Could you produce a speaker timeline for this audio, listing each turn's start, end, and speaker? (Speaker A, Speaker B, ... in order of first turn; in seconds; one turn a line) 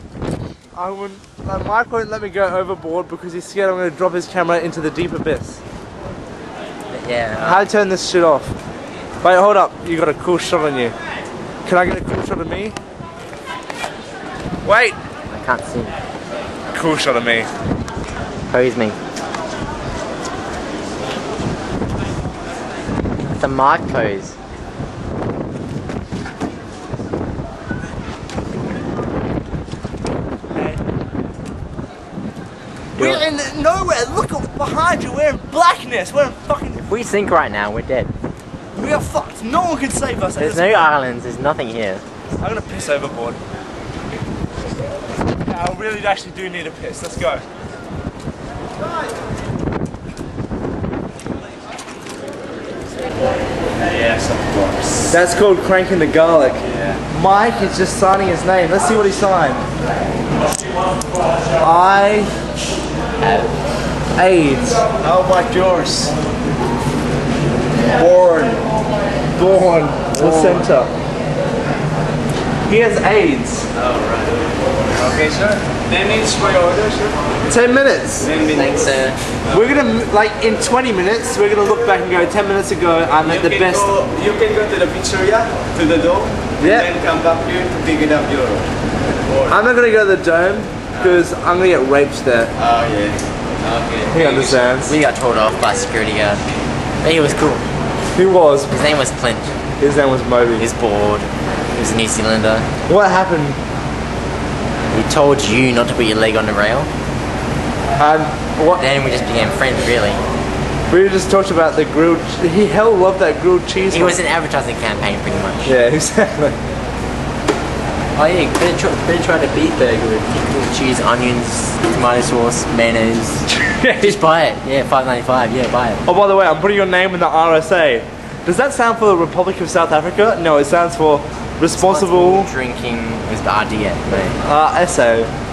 Speaker A: 0.7-5.6
Speaker B: 6.9-7.7
Speaker A: 7.4-8.5
Speaker A: 9.2-10.9
Speaker A: 11.7-12.8
Speaker A: 14.6-15.0
Speaker B: 15.3-15.9
Speaker A: 16.7-17.5
Speaker B: 18.5-19.0
Speaker B: 23.2-24.3
Speaker A: 30.5-30.8
Speaker A: 33.0-36.9
Speaker B: 33.0-33.2
Speaker B: 36.8-38.1
Speaker A: 38.7-40.9
Speaker B: 40.4-42.0
Speaker A: 42.4-43.4
Speaker A: 45.4-47.4
Speaker C: 53.9-55.0
Speaker A: 55.1-59.6
Speaker A: 61.6-62.3
Speaker B: 63.2-63.5
Speaker A: 64.2-64.9
Speaker C: 65.0-66.1
Speaker A: 67.9-68.6
Speaker A: 69.3-70.9
Speaker A: 72.7-73.7
Speaker B: 73.8-74.3
Speaker C: 75.0-77.2
Speaker A: 77.5-78.3
Speaker C: 78.3-78.7
Speaker B: 78.5-79.2
Speaker A: 79.5-83.9
Speaker C: 83.2-88.7
Speaker A: 86.6-86.9
Speaker A: 89.5-92.5
Speaker C: 92.6-93.2
Speaker B: 93.7-96.4
Speaker A: 94.1-95.0
Speaker B: 97.0-97.6
Speaker A: 98.1-98.7
Speaker B: 98.7-99.5
Speaker A: 99.8-100.7
Speaker B: 100.6-102.7
Speaker A: 102.9-103.6
Speaker B: 104.9-106.9
Speaker A: 108.0-108.9
Speaker B: 108.7-110.2
Speaker A: 110.9-114.2
Speaker B: 113.9-115.7
Speaker A: 115.6-116.5
Speaker B: 118.2-126.0
Speaker A: 123.5-124.2
Speaker A: 126.0-132.5
Speaker B: 131.8-134.4
Speaker A: 134.4-135.3